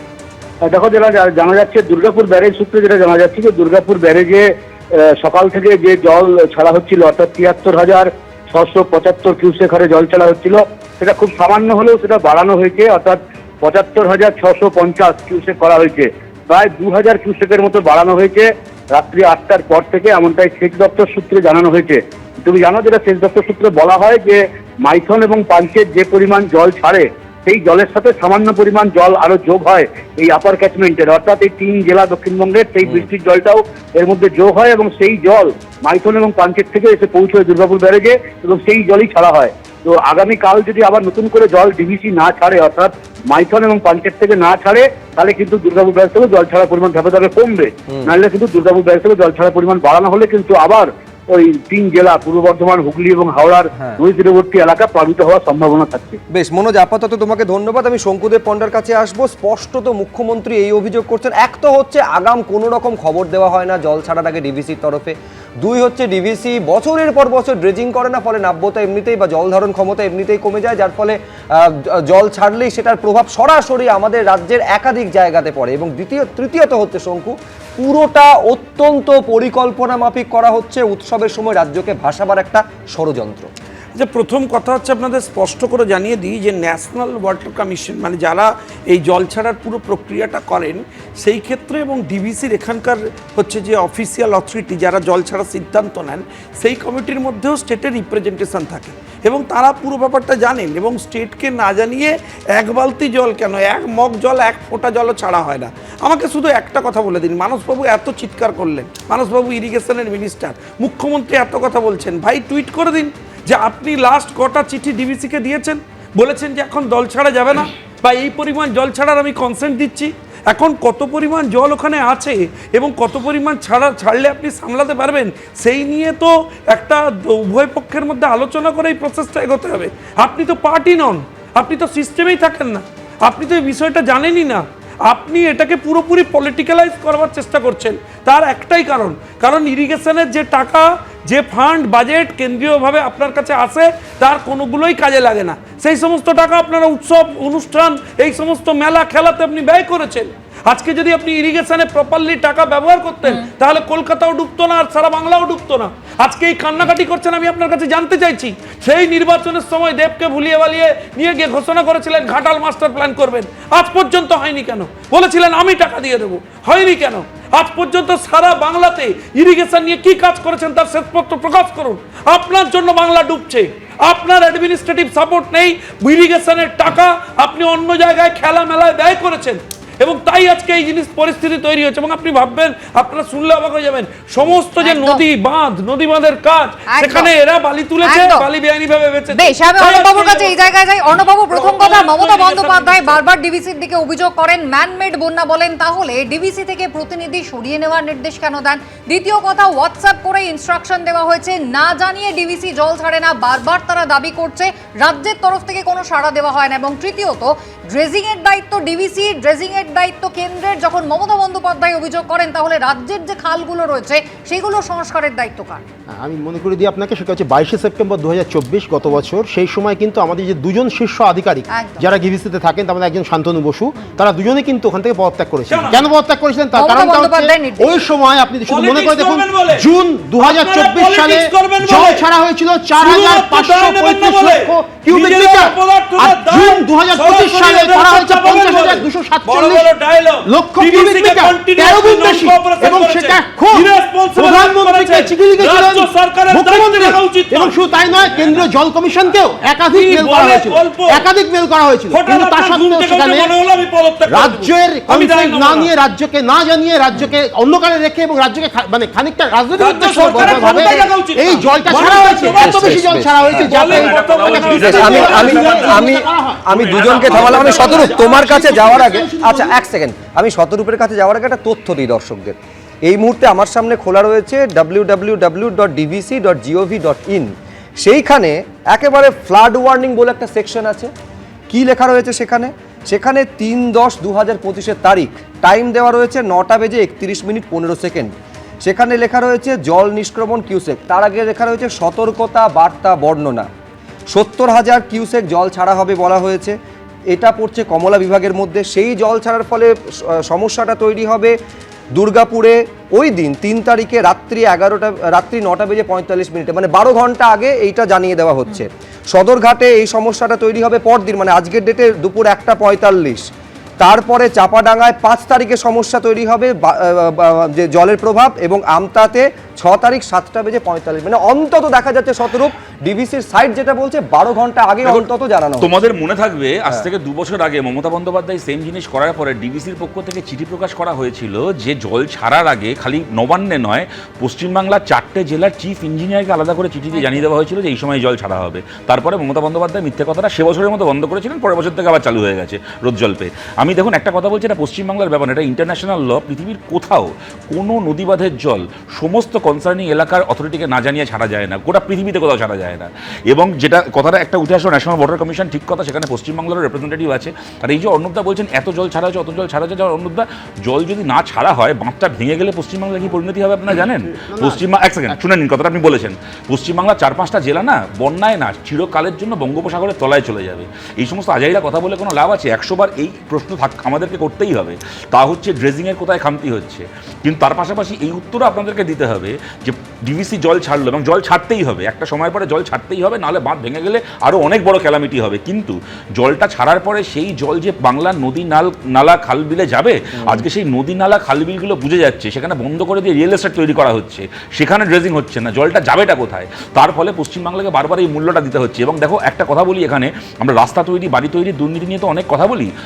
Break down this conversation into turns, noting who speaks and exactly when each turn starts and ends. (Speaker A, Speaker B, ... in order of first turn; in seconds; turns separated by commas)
Speaker A: 0.7-56.2, Speaker B: 56.3-83.5, Speaker C: 83.9-193.2, Speaker D: 184.8-185.2, Speaker D: 186.9-187.3, Speaker D: 188.0-188.5, Speaker D: 189.3-215.8, Speaker E: 216.2-239.9, Speaker D: 221.7-222.1, Speaker C: 225.7-226.0, Speaker D: 226.8-228.0, Speaker C: 228.7-229.8, Speaker C: 230.4-232.2, Speaker C: 233.0-248.7, Speaker E: 240.4-253.5, Speaker C: 249.9-251.2, Speaker C: 252.1-255.9, Speaker E: 254.3-269.8, Speaker C: 259.8-265.9, Speaker B: 262.6-263.7, Speaker F: 263.8-266.1, Speaker B: 264.8-277.5, Speaker F: 266.7-268.1, Speaker B: 278.0-281.1, Speaker B: 281.7-288.3, Speaker B: 288.8-293.7, Speaker B: 294.3-296.7, Speaker B: 297.3-301.5, Speaker B: 302.1-313.4, Speaker B: 314.0-325.9, Speaker F: 325.8-402.9, Speaker E: 364.2-365.4, Speaker B: 390.4-390.6